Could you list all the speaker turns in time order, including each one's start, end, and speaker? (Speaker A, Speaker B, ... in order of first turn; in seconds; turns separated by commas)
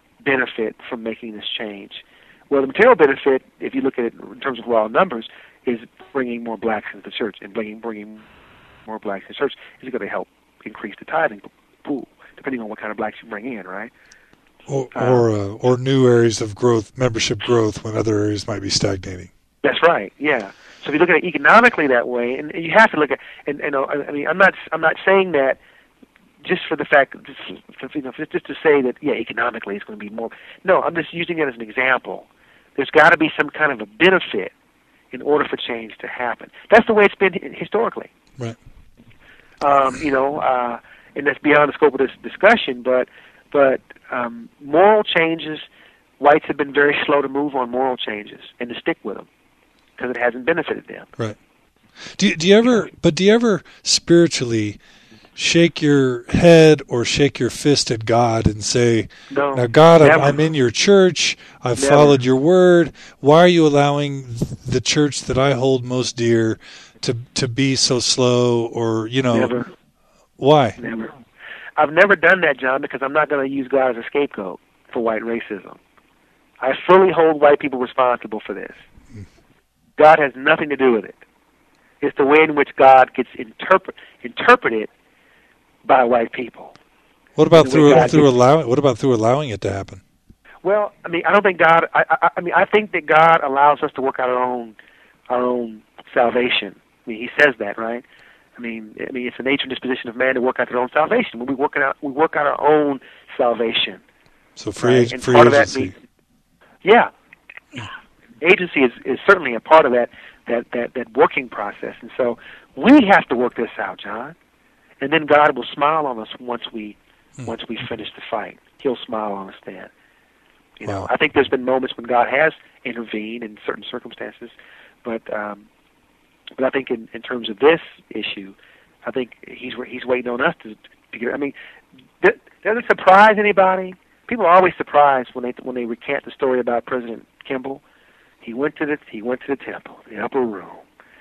Speaker A: 0.2-8.2, Speaker A: 8.8-13.9, Speaker B: 14.7-19.3, Speaker A: 14.9-15.2, Speaker A: 19.6-25.6, Speaker A: 26.4-34.5, Speaker A: 35.1-38.1, Speaker A: 39.6-45.7, Speaker A: 46.2-49.3, Speaker A: 50.0-51.1, Speaker B: 52.0-54.8, Speaker B: 55.4-69.5, Speaker A: 59.3-60.4, Speaker A: 61.8-62.2, Speaker A: 69.3-69.7, Speaker B: 70.4-70.8, Speaker A: 70.8-71.1, Speaker A: 71.8-75.8, Speaker A: 76.6-78.8, Speaker A: 80.0-81.2, Speaker A: 82.0-84.9, Speaker A: 85.8-86.7, Speaker B: 87.4-90.0, Speaker A: 87.5-88.3, Speaker A: 90.6-94.8, Speaker A: 95.3-98.0, Speaker A: 98.6-104.0, Speaker B: 104.6-105.9, Speaker A: 104.8-105.9, Speaker A: 106.8-107.1, Speaker A: 108.4-114.3, Speaker A: 115.0-119.9, Speaker A: 120.8-125.6, Speaker A: 126.6-131.5, Speaker A: 132.2-137.8, Speaker A: 138.4-140.8